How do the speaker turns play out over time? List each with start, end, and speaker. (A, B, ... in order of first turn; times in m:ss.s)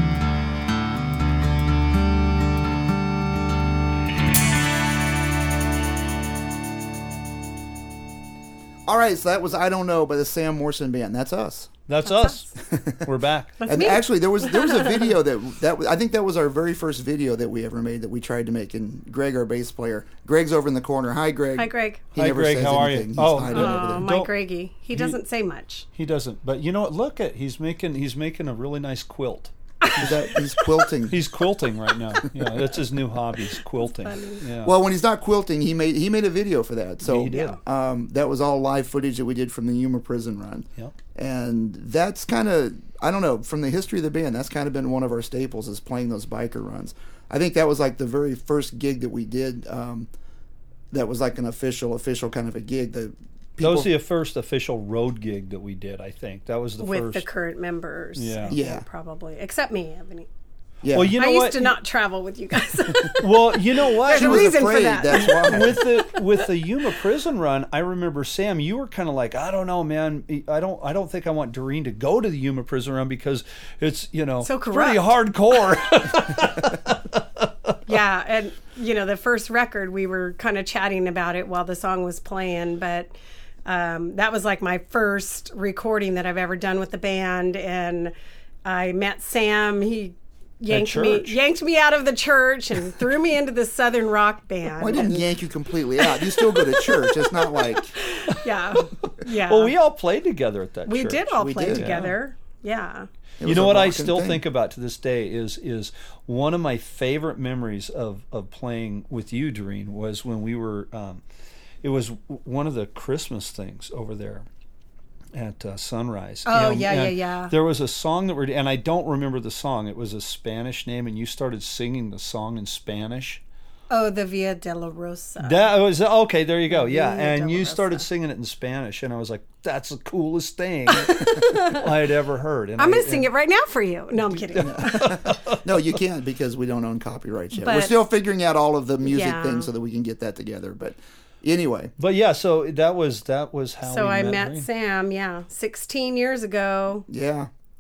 0:08.9-0:11.7 A
0:11.9-0:12.5 B
0:12.1-0:12.4 C
0:12.6-0:13.1 A
0:13.0-0:13.6 B
0:13.6-0:15.1 C
0:13.6-0:24.1 A
0:21.6-0:22.0 C
0:22.1-0:24.3 B
0:23.5-0:25.9 C
0:24.9-0:25.2 B
0:26.0-0:30.2 B
0:30.0-0:31.2 A
0:31.1-0:34.8 B
0:33.8-0:34.4 C
0:34.6-0:50.1 A
0:37.0-0:37.6 B
0:50.9-0:53.9 A
0:53.6-0:57.3 B
0:56.8-1:00.3 C
0:58.2-0:58.6 B
0:58.5-0:58.8 A
1:00.8-1:01.2 A
1:00.9-1:01.8 B
1:01.2-1:06.2 C
1:03.1-1:04.5 B
1:04.1-1:05.8 A
1:05.1-1:17.8 B
1:14.4-1:15.0 C
1:17.9-1:23.1 C
1:23.6-1:28.1 C
1:28.6-1:35.2 C
1:30.7-1:31.4 B
1:34.8-1:37.9 A
1:36.0-1:39.7 C
1:39.3-1:42.2 B
1:40.9-1:43.1 C
1:41.4-1:42.0 A
1:43.4-1:44.4 A
1:43.4-1:51.2 B
1:51.8-1:54.5 B
1:55.3-2:03.4 B
1:56.5-1:57.5 C
2:03.9-2:05.7 C
2:05.4-2:13.3 B
2:06.7-2:08.0 C
2:10.9-2:11.9 C
2:12.8-2:15.2 C
2:14.3-2:15.8 B
2:14.6-2:21.9 A
2:17.6-2:18.0 C
2:19.0-2:19.7 C
2:22.0-2:24.7 B
2:23.8-2:27.1 C
2:27.1-2:27.5 A